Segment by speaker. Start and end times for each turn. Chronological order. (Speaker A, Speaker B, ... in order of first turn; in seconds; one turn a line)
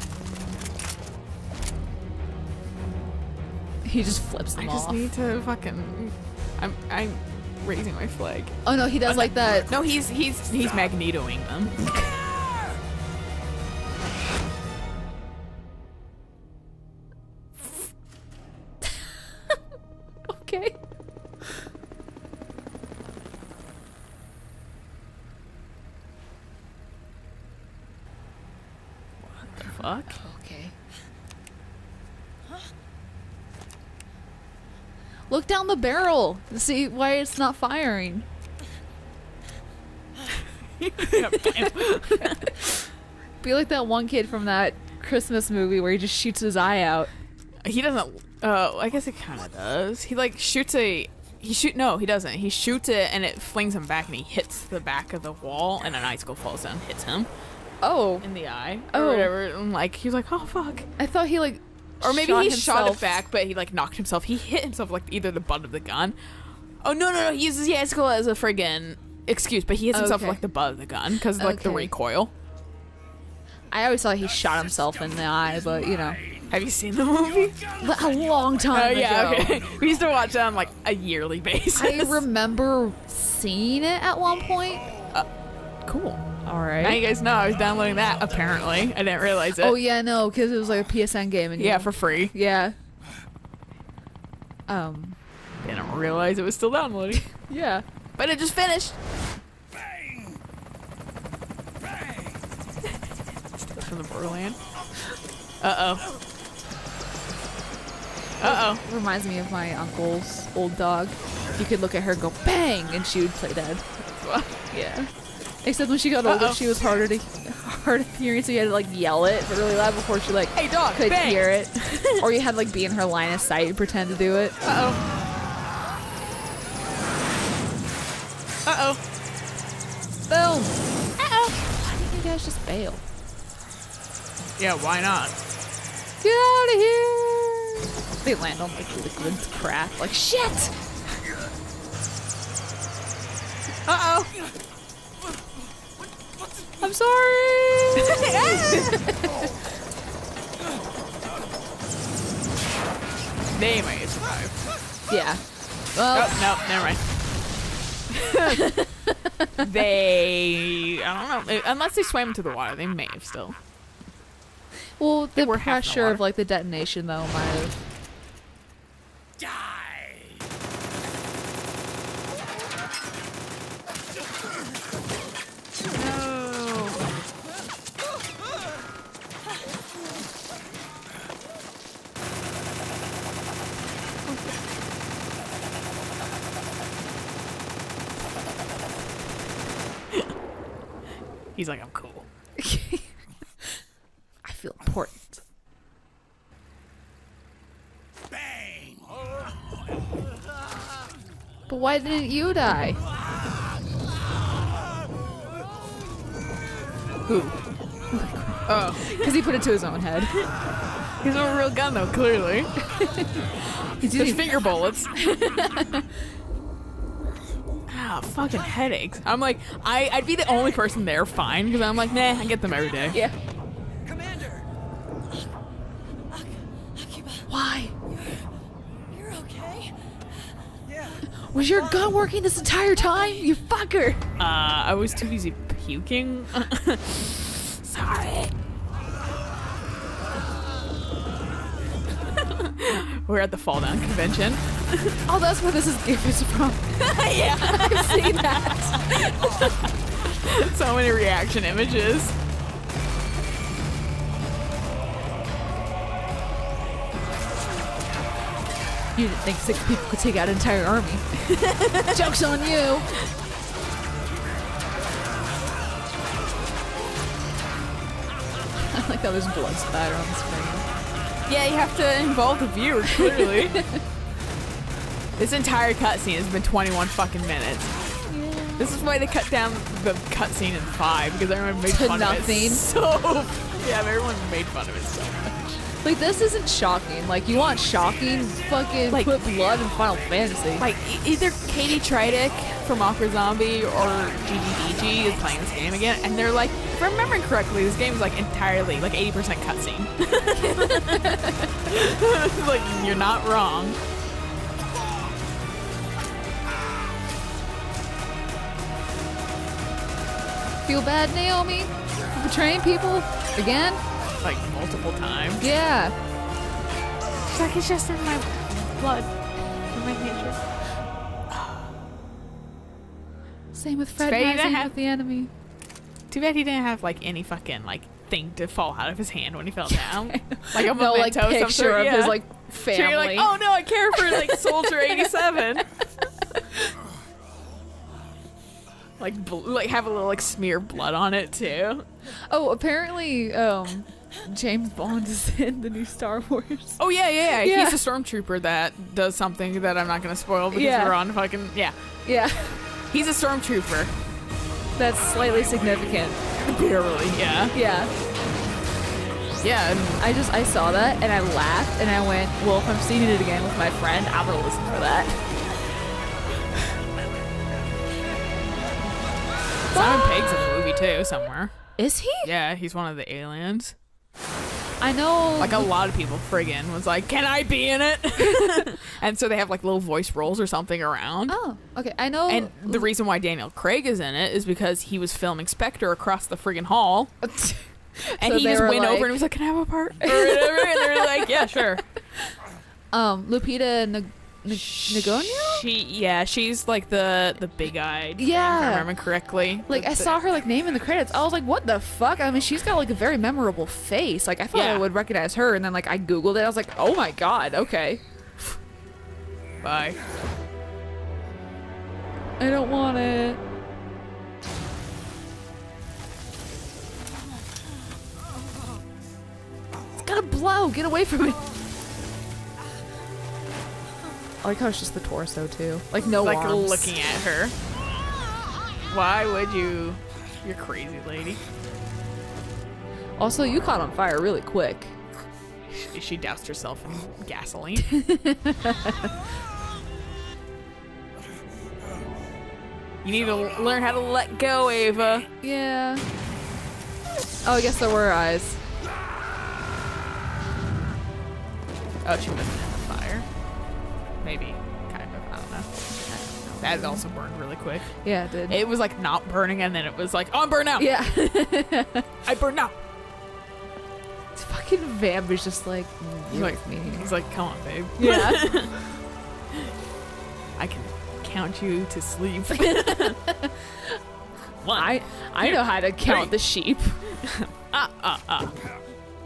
Speaker A: 3.9-5.0
Speaker B: 4.6-11.8
Speaker A: 8.7-9.8
Speaker C: 9.7-10.9
Speaker C: 12.0-12.7
Speaker A: 20.3-20.8
Speaker B: 29.2-30.2
Speaker A: 30.1-30.8
Speaker A: 35.3-38.3
Speaker B: 40.8-42.5
Speaker A: 41.1-42.5
Speaker A: 43.4-47.1
Speaker B: 47.6-57.3
Speaker A: 57.8-58.2
Speaker B: 58.2-60.9
Speaker A: 58.9-59.3
Speaker A: 61.0-63.1
Speaker B: 62.0-66.2
Speaker B: 66.8-72.3
Speaker A: 69.9-70.4
Speaker A: 71.4-71.9
Speaker A: 73.7-76.2
Speaker C: 74.2-76.6
Speaker B: 76.5-77.6
Speaker C: 77.2-80.7
Speaker A: 77.8-79.7
Speaker B: 78.7-82.2
Speaker A: 81.8-85.0
Speaker C: 84.3-85.2
Speaker B: 85.8-86.2
Speaker A: 86.5-87.0
Speaker B: 86.8-89.8
Speaker A: 89.6-92.8
Speaker B: 91.6-92.3
Speaker A: 94.7-95.2
Speaker B: 95.6-97.3
Speaker A: 97.4-97.8
Speaker B: 98.2-99.0
Speaker C: 99.7-100.4
Speaker C: 101.8-102.5
Speaker B: 103.6-104.6
Speaker B: 105.6-106.1
Speaker B: 108.4-108.8
Speaker A: 108.4-113.9
Speaker B: 114.0-114.6
Speaker A: 114.7-115.1
Speaker A: 115.6-124.6
Speaker B: 116.2-116.6
Speaker B: 120.6-122.2
Speaker B: 124.6-125.0
Speaker B: 128.7-129.0
Speaker A: 130.3-130.8
Speaker B: 131.2-131.5
Speaker A: 131.4-133.0
Speaker B: 134.6-135.3
Speaker A: 136.2-140.7
Speaker B: 143.9-144.3
Speaker A: 146.8-149.6
Speaker B: 148.0-149.0
Speaker B: 153.5-154.7
Speaker A: 155.1-155.4
Speaker A: 155.9-156.4
Speaker B: 156.1-157.0
Speaker B: 158.1-158.7
Speaker A: 158.5-159.7
Speaker B: 159.6-163.6
Speaker A: 165.0-167.8
Speaker B: 165.4-166.2
Speaker C: 169.4-170.4
Speaker B: 175.9-177.1
Speaker B: 191.6-192.3
Speaker A: 192.6-193.1
Speaker A: 194.4-195.4
Speaker C: 198.3-199.8
Speaker A: 201.7-203.0
Speaker A: 207.3-210.3
Speaker B: 208.7-209.3
Speaker B: 211.2-212.7
Speaker A: 212.9-213.4
Speaker A: 214.0-214.4
Speaker B: 214.1-215.2
Speaker A: 215.2-216.1
Speaker B: 217.9-223.2
Speaker D: 224.0-224.7
Speaker D: 226.3-227.5
Speaker A: 227.5-227.9
Speaker D: 228.1-228.5
Speaker D: 229.1-230.2
Speaker D: 230.8-232.1
Speaker A: 231.5-234.2
Speaker D: 233.1-233.4
Speaker B: 234.4-238.5
Speaker B: 242.4-245.2
Speaker A: 245.3-249.7
Speaker B: 247.0-249.7
Speaker B: 250.3-252.3
Speaker A: 259.2-261.2
Speaker B: 261.5-262.2
Speaker A: 262.1-263.1
Speaker A: 268.9-270.9
Speaker B: 271.5-273.8
Speaker A: 273.4-274.0
Speaker B: 275.4-278.1
Speaker A: 278.3-279.0
Speaker B: 278.8-285.8
Speaker A: 281.9-282.8
Speaker A: 286.0-290.9
Speaker B: 289.1-289.4
Speaker B: 290.8-304.0
Speaker A: 300.7-301.9
Speaker A: 310.9-314.0
Speaker B: 314.4-315.6
Speaker A: 315.6-316.1
Speaker B: 317.4-319.3
Speaker B: 319.9-320.6
Speaker B: 321.5-321.9
Speaker A: 323.7-325.5
Speaker B: 324.2-324.9
Speaker B: 326.3-335.9
Speaker A: 330.3-333.5
Speaker A: 334.1-335.3
Speaker A: 336.5-336.9
Speaker B: 339.2-342.1
Speaker A: 342.5-347.0
Speaker B: 347.0-352.0
Speaker A: 347.5-348.0
Speaker A: 350.7-351.2
Speaker A: 352.2-352.8
Speaker B: 353.1-354.1
Speaker A: 355.0-356.4
Speaker B: 356.6-357.8
Speaker A: 357.7-358.1
Speaker B: 359.6-360.2
Speaker A: 360.2-365.4
Speaker B: 369.9-371.7
Speaker A: 369.9-370.7
Speaker A: 372.0-372.5
Speaker B: 372.4-373.9
Speaker A: 375.0-375.9
Speaker B: 375.6-381.6
Speaker A: 381.5-383.1
Speaker B: 382.5-387.4
Speaker A: 387.4-389.5
Speaker B: 388.4-392.0
Speaker A: 390.2-392.0
Speaker A: 393.1-395.9
Speaker B: 394.7-400.4
Speaker A: 398.4-399.1
Speaker A: 399.9-408.2
Speaker B: 404.7-405.1
Speaker B: 409.8-410.2
Speaker A: 412.6-413.6
Speaker A: 420.2-421.7
Speaker A: 424.6-427.2
Speaker B: 426.4-427.8
Speaker B: 429.1-431.6
Speaker A: 433.4-435.2
Speaker B: 435.9-438.1
Speaker A: 438.1-439.3
Speaker B: 443.2-445.5
Speaker A: 445.6-446.3
Speaker A: 447.6-448.8
Speaker B: 452.2-453.5
Speaker B: 454.4-455.9
Speaker A: 456.2-457.2
Speaker B: 456.8-461.1
Speaker A: 458.2-458.8
Speaker A: 461.0-462.3
Speaker B: 462.4-462.9
Speaker A: 464.5-467.3
Speaker B: 466.5-469.0
Speaker A: 468.2-468.7
Speaker B: 470.8-473.4
Speaker A: 472.7-473.8
Speaker B: 474.8-476.6
Speaker A: 474.9-477.3
Speaker B: 477.4-478.7